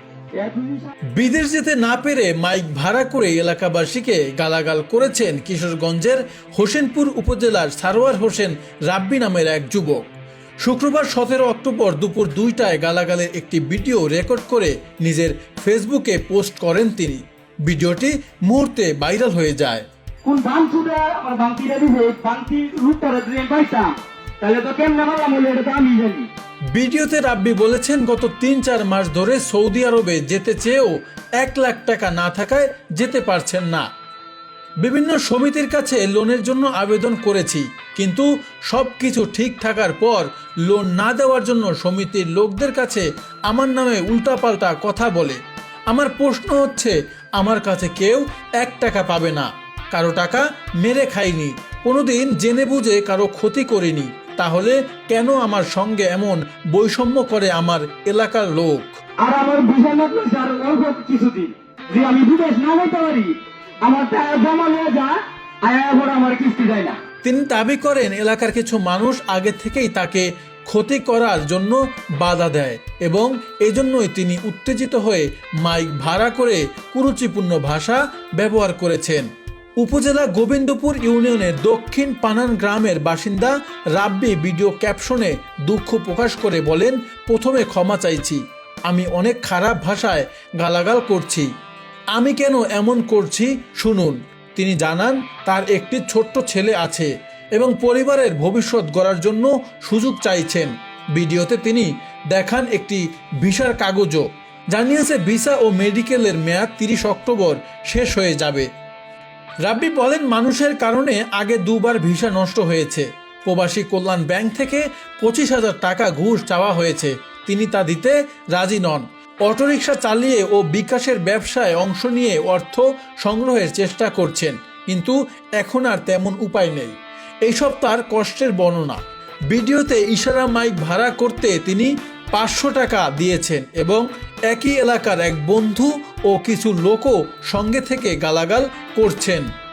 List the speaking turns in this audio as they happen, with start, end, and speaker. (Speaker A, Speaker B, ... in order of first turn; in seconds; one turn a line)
Speaker A: 0.3-0.9
Speaker B: 1.1-10.0
Speaker B: 10.6-19.9
Speaker A: 20.2-26.3
Speaker B: 26.7-33.9
Speaker B: 34.8-59.0
Speaker A: 59.2-67.0
Speaker B: 67.2-79.3
Speaker B: 79.8-91.5
Speaker B: 92.1-108.7
Speaker B: 109.6-139.4